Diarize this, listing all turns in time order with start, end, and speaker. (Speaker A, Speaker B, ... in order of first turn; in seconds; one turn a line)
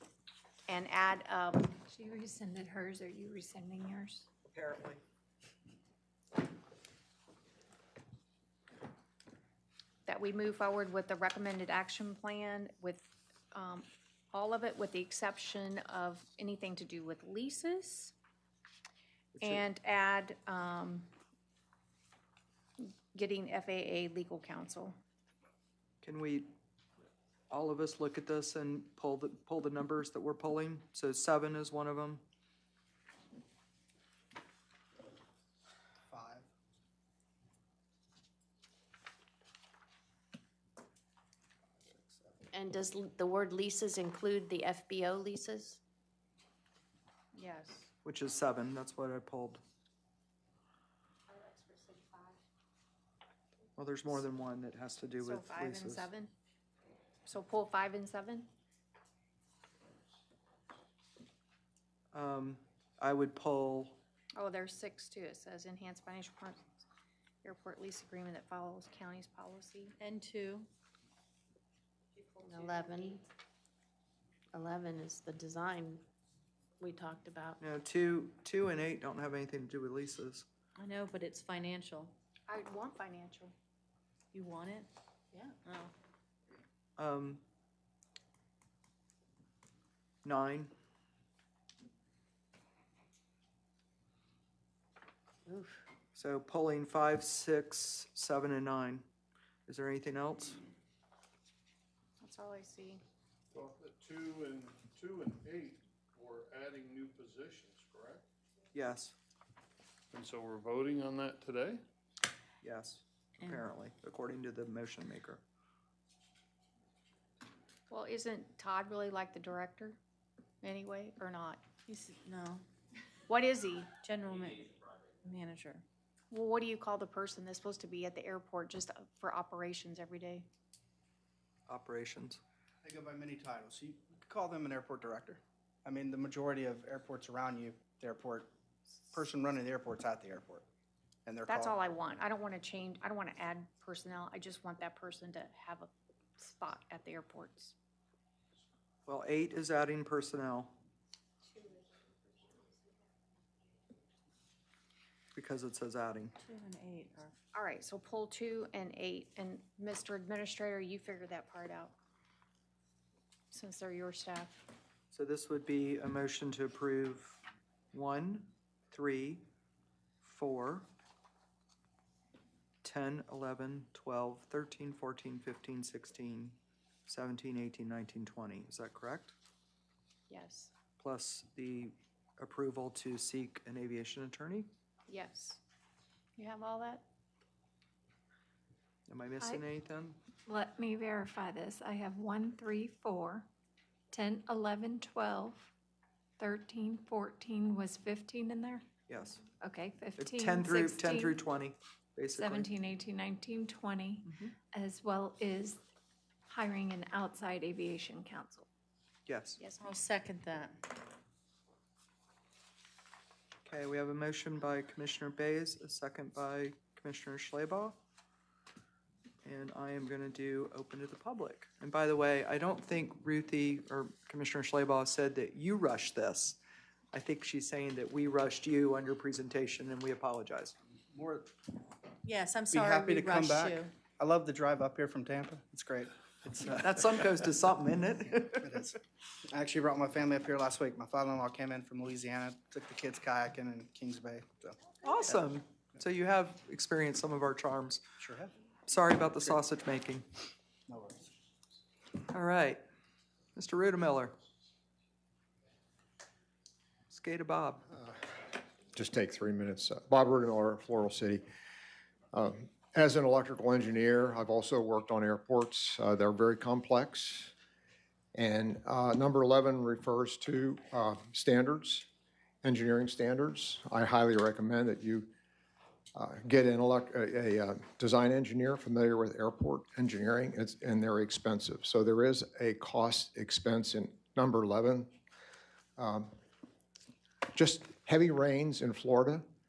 Speaker A: 0.7-1.8
Speaker B: 1.9-4.3
Speaker C: 4.5-5.0
Speaker A: 10.1-18.1
Speaker C: 19.3-19.6
Speaker A: 19.4-21.1
Speaker A: 22.8-24.9
Speaker C: 26.0-26.5
Speaker C: 27.5-32.2
Speaker D: 36.1-36.5
Speaker E: 42.5-45.8
Speaker A: 47.3-47.9
Speaker C: 48.0-49.6
Speaker C: 53.8-56.1
Speaker A: 55.2-56.3
Speaker A: 57.3-58.5
Speaker C: 62.1-64.0
Speaker A: 64.4-66.8
Speaker A: 67.4-70.0
Speaker F: 70.0-70.7
Speaker F: 72.2-73.2
Speaker E: 72.4-73.2
Speaker E: 74.5-76.0
Speaker E: 76.8-77.6
Speaker C: 77.6-80.5
Speaker F: 80.8-82.2
Speaker A: 82.5-83.5
Speaker F: 84.3-84.9
Speaker C: 87.0-87.4
Speaker C: 90.2-90.7
Speaker E: 95.5-95.8
Speaker C: 96.1-99.0
Speaker C: 99.7-100.6
Speaker A: 102.2-103.0
Speaker G: 103.5-108.2
Speaker C: 108.7-109.1
Speaker G: 110.1-111.8
Speaker C: 112.6-115.4
Speaker A: 117.9-120.0
Speaker A: 120.6-121.6
Speaker F: 121.9-122.7
Speaker A: 123.3-123.9
Speaker F: 124.0-125.8
Speaker A: 126.3-130.5
Speaker C: 131.7-132.4
Speaker D: 132.8-138.5
Speaker D: 139.1-140.7
Speaker D: 141.3-141.8
Speaker A: 141.5-147.8
Speaker C: 149.1-150.8
Speaker C: 155.3-156.3
Speaker F: 156.4-157.4
Speaker A: 157.5-161.9
Speaker A: 163.5-164.6
Speaker C: 165.1-167.4
Speaker C: 167.9-169.4
Speaker C: 170.2-170.9
Speaker C: 172.8-179.3
Speaker A: 180.3-180.7
Speaker C: 181.0-184.7
Speaker A: 185.1-185.6
Speaker A: 186.4-187.1
Speaker C: 189.1-190.2
Speaker B: 190.5-193.5
Speaker B: 194.1-195.7
Speaker B: 196.4-198.9
Speaker C: 199.1-199.4
Speaker B: 199.6-201.4
Speaker C: 200.2-202.7
Speaker B: 202.3-205.8
Speaker B: 206.5-208.7
Speaker C: 209.3-209.6
Speaker A: 209.6-209.9
Speaker F: 209.8-210.9
Speaker C: 213.7-218.0
Speaker C: 219.4-226.6
Speaker C: 227.1-230.7
Speaker D: 231.1-231.5
Speaker F: 232.2-234.0
Speaker D: 232.7-236.1
Speaker C: 236.4-238.8
Speaker D: 238.6-244.9
Speaker C: 245.0-248.0
Speaker D: 248.2-248.5
Speaker C: 248.9-250.2
Speaker D: 250.9-251.2
Speaker C: 252.3-252.8
Speaker C: 253.6-254.3
Speaker C: 257.1-257.9
Speaker H: 258.9-261.4
Speaker H: 262.3-267.5
Speaker H: 268.4-272.1
Speaker H: 272.6-275.3
Speaker H: 276.1-285.1
Speaker H: 286.0-286.3
Speaker H: 287.5-289.4